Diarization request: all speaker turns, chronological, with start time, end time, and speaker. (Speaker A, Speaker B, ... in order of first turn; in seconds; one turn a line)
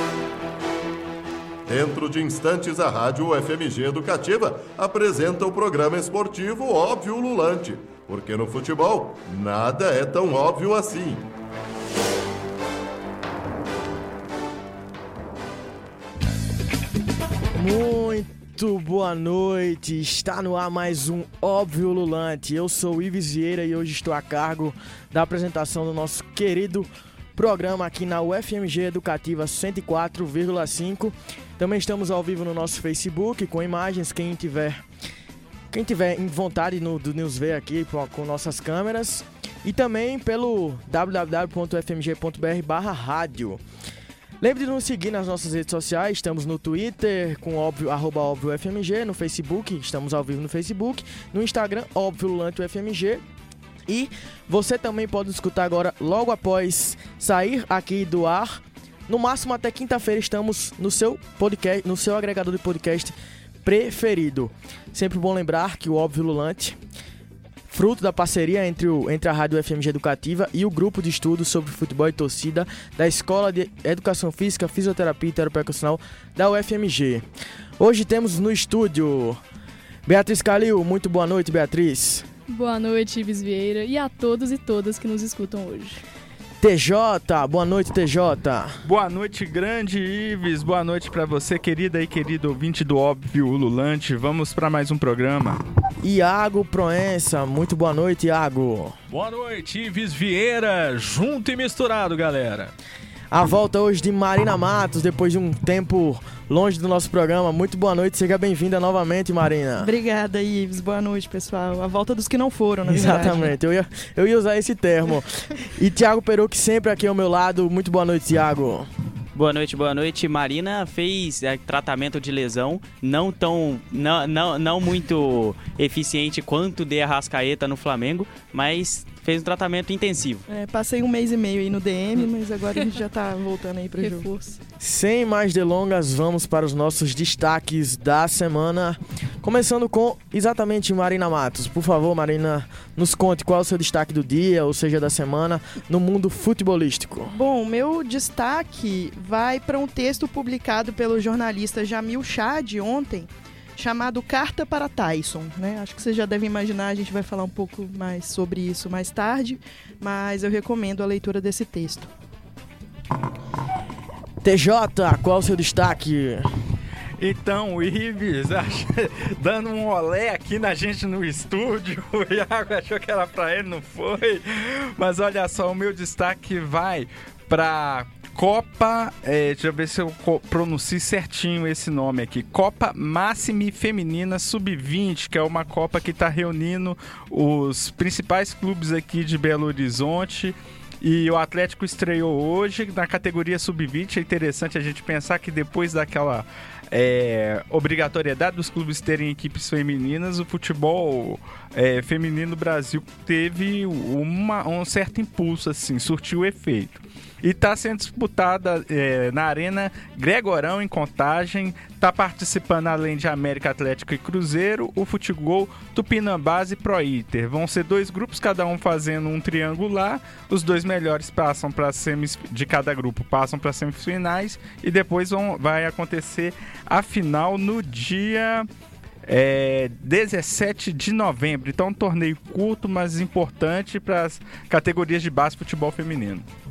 Speaker A: 1.6-11.2
Speaker B: 17.6-34.8
Speaker B: 35.7-43.6
Speaker B: 44.4-53.2
Speaker B: 53.9-66.8
Speaker B: 67.7-77.2
Speaker B: 77.8-79.4
Speaker B: 80.0-82.2
Speaker C: 82.5-86.0
Speaker B: 86.6-88.7
Speaker D: 88.8-95.6
Speaker B: 96.0-99.0
Speaker E: 99.1-102.7
Speaker B: 103.3-109.9
Speaker F: 109.8-113.5
Speaker B: 112.8-118.9
Speaker G: 119.3-130.4
Speaker F: 130.5-134.3
Speaker C: 134.0-134.6
Speaker B: 134.8-147.3
Speaker F: 147.3-162.1
Speaker B: 164.4-166.4
Speaker D: 167.2-228.7
Speaker D: 229.2-236.4